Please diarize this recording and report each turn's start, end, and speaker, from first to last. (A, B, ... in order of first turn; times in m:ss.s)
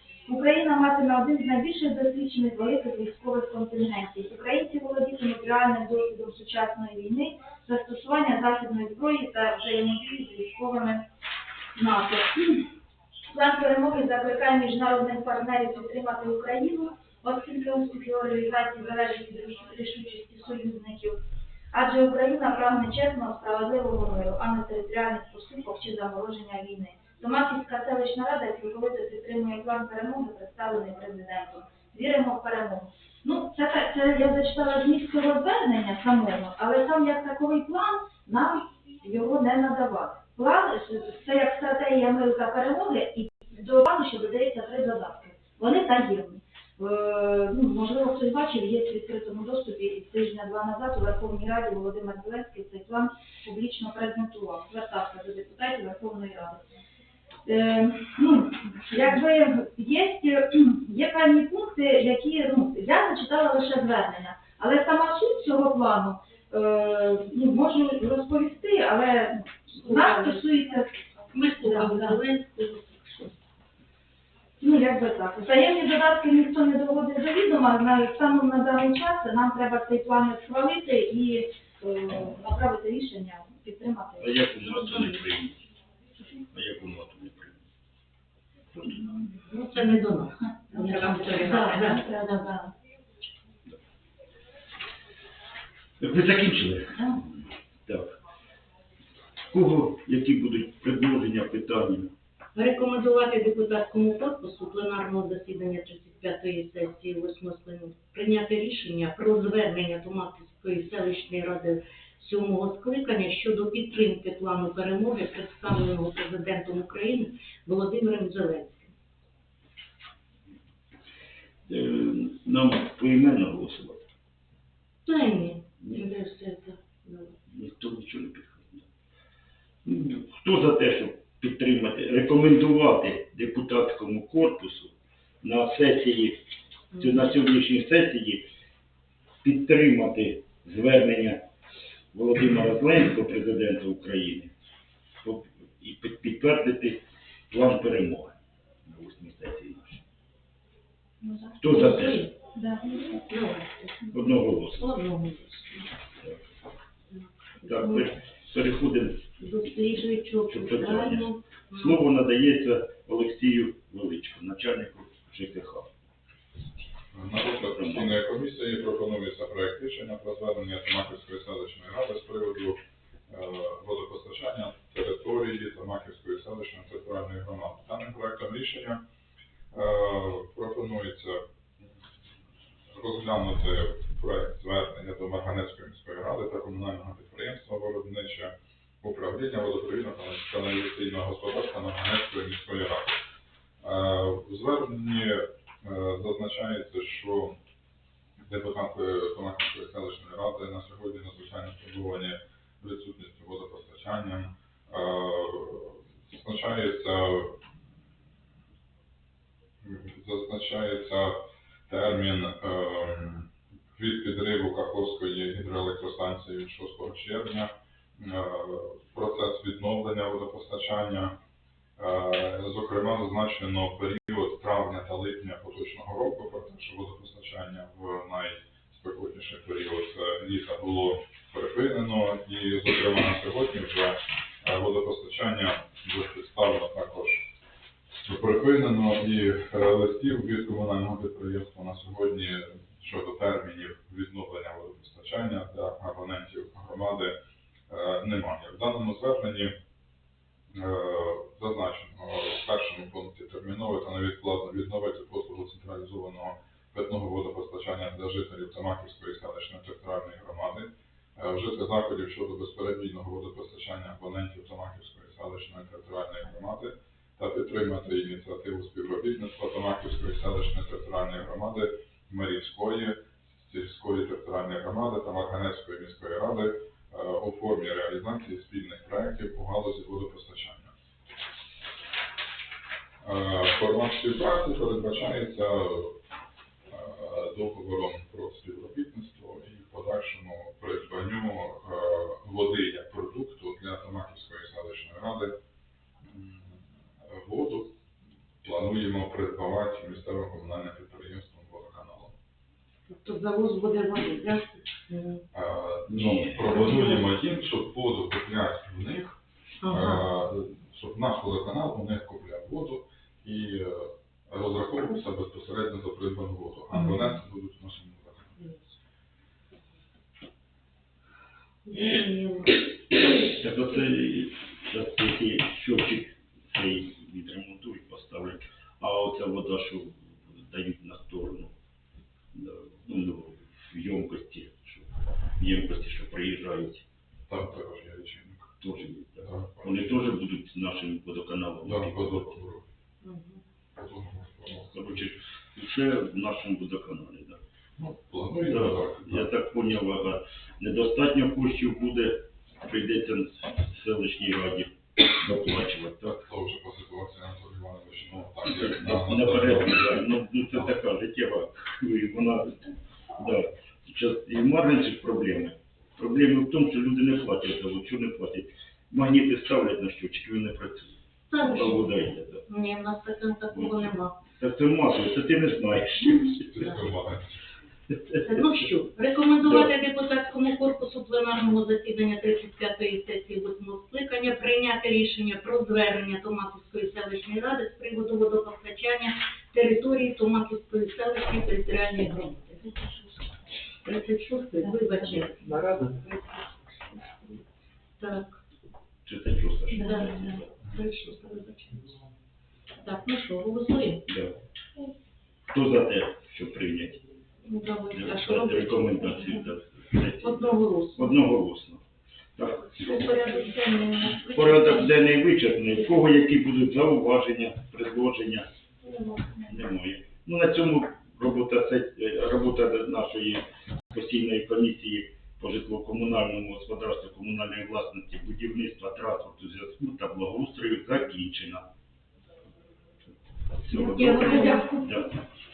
0:00.3-0:11.0 A
0:11.8-0:12.7 A
0:13.3-0:21.2 A
0:21.7-0:56.6 A
0:57.5-1:10.9 A
1:09.8-1:10.4 B
1:11.3-1:13.3 B
1:11.6-1:12.2 A
1:14.6-1:25.1 A
1:24.2-1:25.6 C
1:26.5-1:27.6 C
1:28.9-1:29.1 A
1:29.4-1:32.2 B
1:30.7-1:32.7 A
1:36.0-1:38.1 C
1:39.5-1:42.1 C
1:42.6-1:58.9 B
2:01.7-2:04.0 C
2:05.1-2:07.3 B
2:07.5-2:08.8 C
2:09.8-2:16.4 C
2:17.0-2:18.5 C
2:19.4-2:21.4 C
2:22.1-2:24.5 C
2:25.2-2:30.0 C
2:31.2-2:31.9 A
2:31.6-2:32.3 C
2:31.7-2:32.3 B
2:32.5-2:33.3 A
2:33.3-2:35.9 B
2:34.1-2:34.9 C
2:37.1-2:38.1 B
2:37.6-2:39.3 C
2:39.4-2:42.0 B
2:40.5-2:45.9 C
2:47.1-2:59.0 D
2:47.7-2:48.1 C
2:59.7-3:01.4 D
3:02.9-3:13.2 D
3:13.8-3:17.6 D
3:18.4-3:27.6 D
3:29.8-3:41.4 D
3:42.0-3:57.5 D
3:58.2-4:07.4 D
4:07.9-4:09.8 D
4:10.7-4:40.9 D
4:43.2-4:46.2 D
4:46.9-4:55.5 D
4:56.2-4:57.9 D
4:58.6-5:02.4 D
5:03.1-5:05.4 B
5:05.5-5:18.6 D
5:06.1-5:06.8 C
5:06.8-5:07.1 B
5:09.8-5:10.3 B
5:16.9-5:17.3 B
5:18.6-5:18.8 B
5:21.9-5:22.9 B
5:23.5-5:31.7 C
5:32.5-5:35.1 C
5:35.6-5:37.0 C
5:37.5-5:38.7 D
5:38.8-5:42.6 C
5:39.4-5:40.4 D
5:41.8-5:42.8 D
5:43.2-5:43.6 B
5:44.0-5:45.3 D
5:44.8-5:47.6 C
5:48.0-5:49.5 D
5:48.7-5:56.5 C
5:56.4-6:00.9 D
5:58.7-6:12.6 C
6:11.5-6:14.4 B
6:14.6-6:16.7 C
6:16.5-6:17.5 D
6:18.1-6:18.4 C
6:18.4-6:33.2 B
6:19.6-6:19.9 C
6:34.0-6:35.7 B
6:35.6-6:37.6 E
6:38.2-6:38.6 B
6:39.2-6:40.9 C
6:39.9-6:42.0 B
6:41.9-6:42.2 E
6:43.0-6:44.3 B
6:44.3-6:44.5 C
6:45.7-6:47.2 C
6:47.6-6:49.7 B
6:48.1-6:52.0 C
6:50.4-6:51.4 B
6:52.6-6:52.9 C
6:52.8-6:55.2 B
6:54.5-6:58.7 C
6:59.1-6:59.6 B
6:59.7-7:11.9 C
7:13.8-7:15.3 C
7:14.0-7:14.9 B
7:14.5-7:15.0 A